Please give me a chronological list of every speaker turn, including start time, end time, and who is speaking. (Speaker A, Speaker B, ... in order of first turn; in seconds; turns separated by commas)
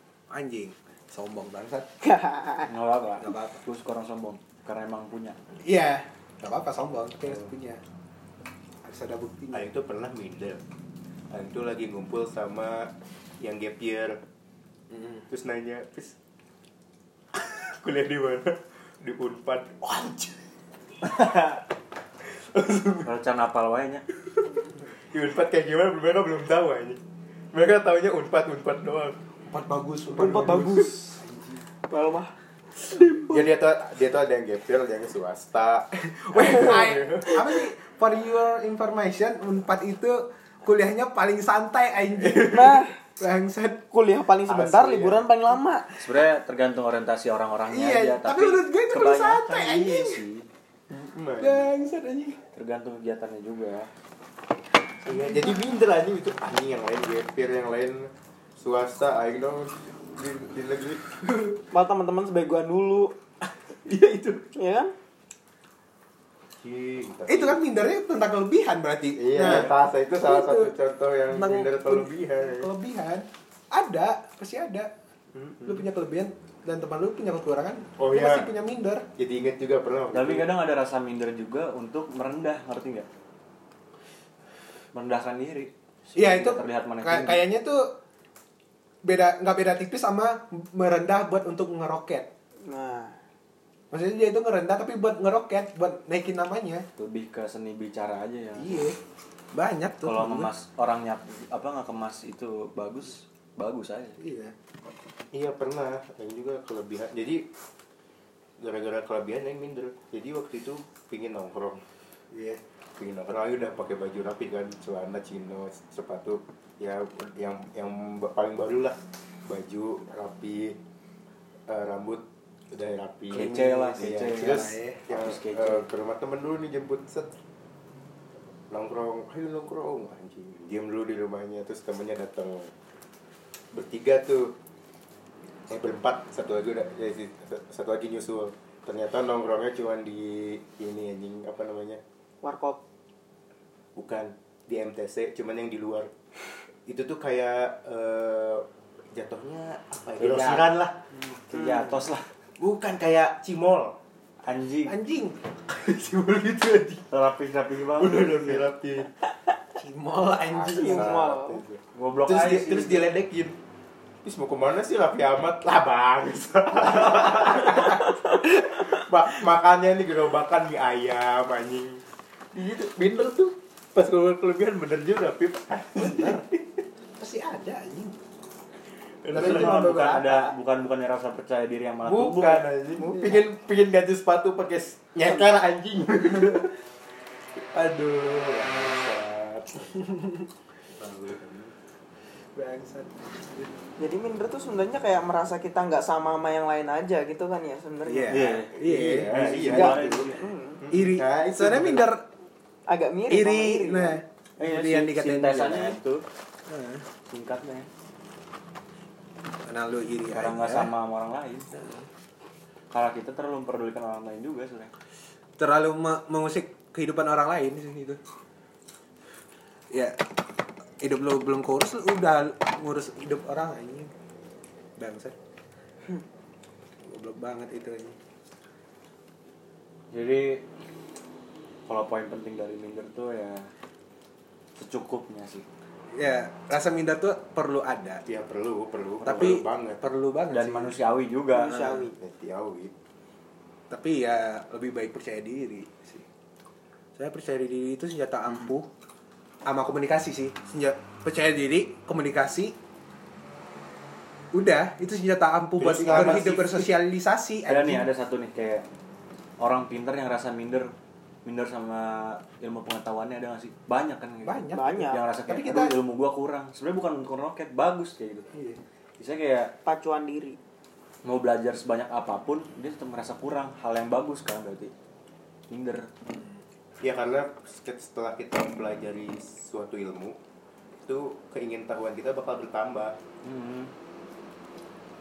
Speaker A: 0.3-1.9, Speaker B: 2.0-2.7, Speaker C: 2.7-5.4, Speaker A: 3.2-3.6, Speaker A: 5.6-7.8, Speaker A: 8.8-9.7, Speaker D: 9.5-10.6, Speaker D: 11.3-14.2, Speaker A: 14.9-15.2, Speaker D: 15.3-16.1, Speaker D: 17.3-20.4, Speaker C: 21.0-21.6, Speaker D: 22.3-23.1, Speaker C: 23.0-24.0, Speaker D: 25.1-27.0, Speaker D: 27.5-29.2, Speaker A: 29.4-31.6, Speaker B: 30.1-31.2, Speaker B: 31.9-33.5, Speaker D: 33.3-37.5, Speaker A: 36.1-43.8, Speaker D: 42.2-42.6, Speaker B: 42.4-43.0, Speaker B: 43.9-45.9, Speaker D: 44.5-45.3, Speaker C: 46.0-50.5, Speaker A: 47.7-50.2, Speaker D: 50.9-51.7, Speaker A: 51.4-52.4, Speaker C: 52.5-53.9, Speaker D: 55.0-61.0, Speaker B: 61.7-63.1, Speaker D: 63.9-64.4, Speaker B: 64.5-64.9, Speaker D: 66.6-67.6, Speaker A: 67.3-70.7, Speaker D: 69.2-72.7, Speaker A: 71.3-74.9, Speaker D: 75.3-75.8, Speaker A: 75.6-79.0, Speaker D: 78.0-78.5, Speaker D: 79.2-80.5, Speaker C: 80.1-83.1, Speaker C: 84.9-87.4, Speaker A: 86.2-87.9, Speaker A: 89.0-92.3, Speaker B: 92.6-93.2, Speaker A: 93.9-96.9, Speaker C: 97.0-98.9, Speaker A: 98.6-99.0, Speaker A: 99.5-100.5, Speaker C: 100.0-104.2, Speaker A: 104.2-104.5, Speaker D: 105.3-107.5, Speaker D: 108.6-111.8, Speaker A: 112.3-112.6, Speaker D: 113.0-120.8, Speaker D: 121.7-127.4, Speaker A: 123.3-125.0, Speaker C: 123.3-125.8, Speaker D: 128.7-132.7, Speaker D: 133.7-134.5, Speaker D: 135.7-142.0, Speaker B: 142.4-142.8, Speaker D: 143.9-146.1, Speaker D: 146.8-151.0, Speaker C: 150.2-150.7, Speaker C: 151.5-152.3, Speaker B: 151.5-152.0, Speaker D: 152.6-154.0, Speaker C: 154.4-154.9, Speaker A: 154.9-155.4, Speaker D: 155.7-157.1, Speaker C: 157.1-158.7, Speaker D: 157.9-159.1, Speaker A: 159.8-161.1, Speaker D: 160.5-163.6, Speaker B: 160.7-161.6, Speaker C: 161.9-163.1, Speaker D: 164.2-176.8, Speaker A: 176.0-176.4, Speaker A: 177.2-178.1, Speaker D: 179.2-180.3, Speaker A: 179.3-180.4, Speaker C: 179.3-182.7, Speaker D: 182.0-186.7, Speaker A: 186.3-186.6, Speaker D: 187.6-190.0, Speaker A: 189.9-190.5, Speaker D: 190.9-191.7, Speaker A: 192.6-193.7, Speaker B: 194.0-198.6, Speaker A: 198.0-199.6, Speaker C: 198.3-200.4, Speaker D: 198.8-202.1, Speaker B: 199.7-200.8, Speaker A: 200.9-202.2, Speaker B: 202.9-204.2, Speaker A: 203.3-206.0, Speaker C: 204.6-206.2, Speaker A: 206.7-207.0, Speaker C: 207.2-207.9, Speaker A: 209.6-210.9, Speaker C: 210.3-211.7, Speaker C: 212.9-214.9, Speaker A: 215.6-218.2, Speaker A: 219.9-220.2, Speaker A: 221.0-224.1, Speaker A: 225.0-225.3, Speaker A: 227.0-228.2, Speaker C: 230.1-230.6, Speaker C: 231.9-233.7, Speaker C: 234.8-235.6, Speaker A: 236.1-238.2, Speaker D: 238.2-240.0, Speaker C: 239.2-239.6, Speaker A: 239.3-240.9, Speaker C: 240.5-241.8, Speaker B: 241.5-242.2, Speaker A: 241.7-242.1, Speaker D: 242.1-242.9, Speaker A: 243.9-246.2, Speaker A: 247.2-248.9, Speaker A: 249.7-252.8, Speaker A: 254.5-258.1, Speaker D: 255.8-256.9, Speaker C: 256.1-256.5, Speaker C: 257.7-258.8, Speaker C: 259.6-260.9, Speaker C: 261.4-268.5, Speaker A: 264.4-265.9, Speaker B: 264.7-265.2, Speaker A: 268.5-268.8, Speaker C: 269.2-269.7, Speaker B: 269.8-270.6, Speaker C: 271.2-274.9, Speaker C: 275.7-276.1, Speaker D: 277.0-280.4, Speaker D: 281.0-283.1, Speaker C: 283.4-283.9